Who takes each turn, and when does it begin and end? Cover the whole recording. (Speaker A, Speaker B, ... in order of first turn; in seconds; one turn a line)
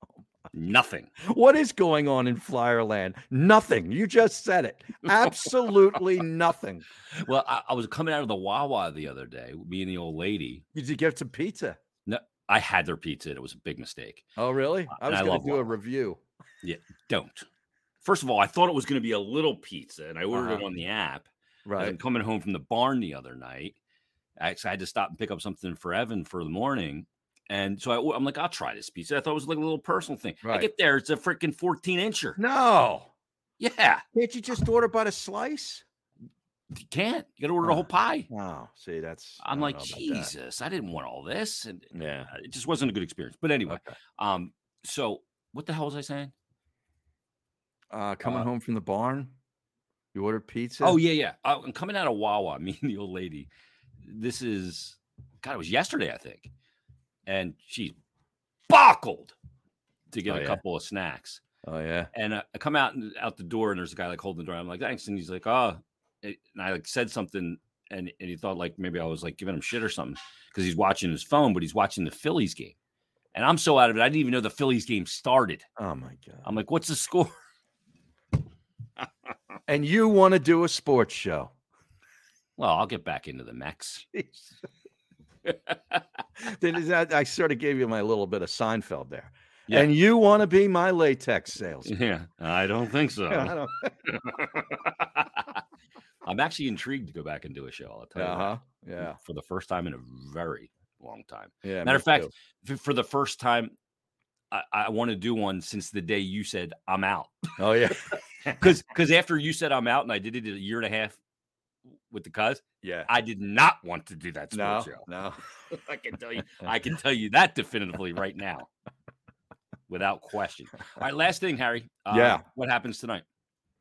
Speaker A: 0.5-1.1
Speaker B: 1.2-6.9
Speaker A: 7.1-10.6
Speaker B: 10.8-11.8
Speaker A: 12.1-14.2
Speaker B: 14.4-16.2
Speaker A: 14.9-15.7
Speaker A: 16.6-17.5
Speaker A: 18.0-23.8
Speaker B: 20.3-20.7
Speaker B: 21.6-22.0
Speaker A: 24.4-32.4
Speaker B: 30.4-30.7
Speaker B: 32.4-33.1
Speaker A: 33.6-34.0
Speaker B: 34.1-35.9
Speaker A: 36.8-38.3
Speaker B: 37.6-40.3
Speaker A: 39.4-46.3
Speaker B: 41.9-42.3
Speaker B: 43.7-44.0
Speaker B: 47.9-49.3
Speaker B: 50.1-51.0
Speaker A: 50.8-53.5
Speaker A: 54.0-56.5
Speaker A: 57.3-58.0
Speaker A: 58.7-59.4
Speaker A: 60.1-61.4
Speaker B: 60.2-60.6
Speaker B: 61.6-62.1
Speaker A: 62.1-72.8
Speaker A: 73.3-75.7
Speaker B: 75.8-76.5
Speaker A: 76.4-77.3
Speaker B: 79.7-81.5
Speaker A: 82.6-84.1
Speaker B: 84.1-84.5
Speaker A: 85.5-86.0
Speaker B: 86.4-91.9
Speaker A: 91.9-95.6
Speaker B: 93.3-94.0
Speaker A: 96.2-103.7
Speaker B: 98.2-99.2
Speaker B: 101.6-102.3
Speaker A: 104.5-107.6
Speaker B: 107.6-108.7
Speaker A: 108.6-111.2
Speaker A: 112.1-115.1
Speaker B: 112.8-113.1
Speaker B: 114.5-115.4
Speaker A: 115.7-118.7
Speaker A: 119.9-123.2
Speaker B: 122.1-122.4